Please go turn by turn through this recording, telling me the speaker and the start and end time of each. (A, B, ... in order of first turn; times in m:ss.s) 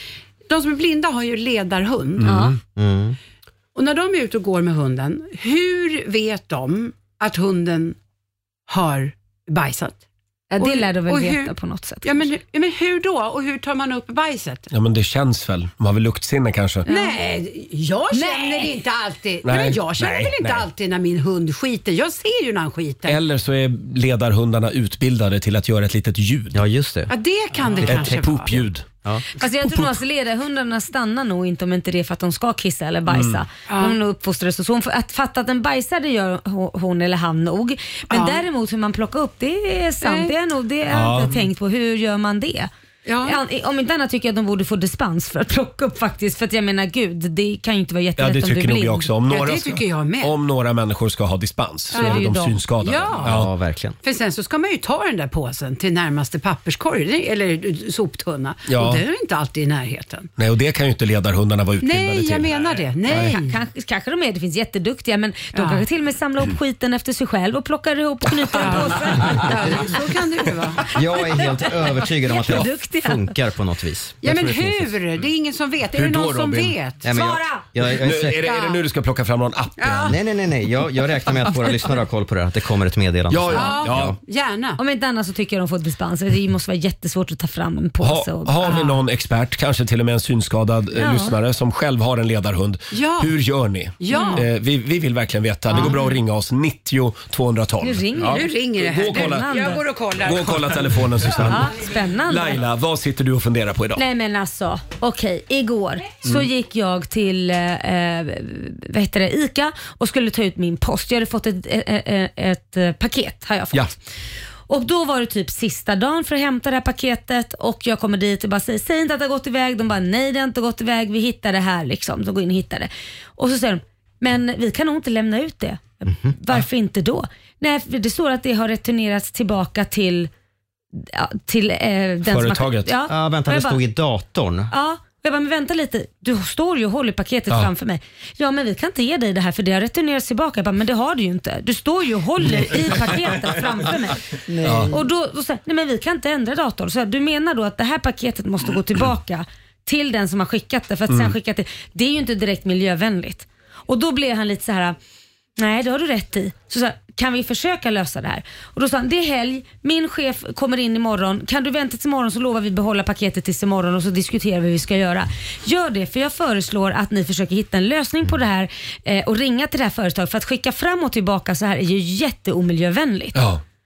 0:00.5-0:02.3 A
0:02.2-0:02.6 B
0:02.2-0:02.6 C
0:02.8-0:03.2 D
0:03.7-0:08.0 A
0:08.7-0:10.0 A
0:10.5-0:12.3 C
0:10.6-0:11.5 A
0:12.0-0:14.7 A
0:14.7-0:16.8 B
0:16.8-0:17.2 C
0:16.8-0:23.2 A
0:18.1-0:18.7 C
0:19.4-0:20.7 B
0:23.1-0:26.6 B
0:26.5-0:27.1 D
0:27.1-0:28.6 A
0:27.7-0:28.8 B
0:27.8-0:28.5 D
0:29.4-0:42.7 C
0:33.1-0:33.4 B
0:33.7-0:34.0 A
0:38.1-0:38.4 A
0:40.0-0:40.3 A
0:40.9-0:41.3 B
0:43.0-0:43.4 A
0:43.2-0:49.1 C
0:48.2-0:53.5 B
0:49.3-0:50.3 A
0:51.9-0:52.6 C
0:51.9-0:52.2 A
0:52.8-0:53.4 A
0:53.2-0:54.0 D
0:54.0-1:00.3 A
0:58.7-0:59.0 B
1:00.4-1:02.5 B
1:01.8-1:03.6 A
1:03.1-1:03.3 B
1:03.1-1:09.8 C
1:05.5-1:05.8 A
1:08.5-1:10.9 A
1:10.9-1:14.2 D
1:11.3-1:13.3 C
1:14.2-1:17.1 A
1:15.9-1:16.8 B
1:17.0-1:18.5 D
1:17.1-1:17.6 C
1:17.9-1:20.2 B
1:18.4-1:18.8 A
1:19.8-1:20.2 A
1:20.1-1:24.2 D
1:23.3-1:24.2 B
1:23.5-1:24.8 A
1:24.8-1:28.8 C
1:28.0-1:44.0 B
1:28.6-1:29.0 A
1:31.0-1:31.4 C
1:32.9-1:33.3 A
1:34.0-1:34.4 A
1:34.1-1:34.4 C
1:35.7-1:36.0 A
1:37.8-1:38.5 C
1:38.2-1:41.5 A
1:39.1-1:39.8 C
1:41.4-1:42.6 C
1:44.0-1:54.0 C
1:54.7-2:10.3 C
2:06.0-2:06.3 D
2:10.9-2:13.8 C
2:12.2-2:12.9 B
2:13.1-2:14.7 D
2:14.7-2:24.4 C
2:24.6-2:24.9 B
2:24.9-2:35.0 C
2:31.1-2:31.3 B
2:35.6-2:53.4 C
2:53.3-2:53.6 B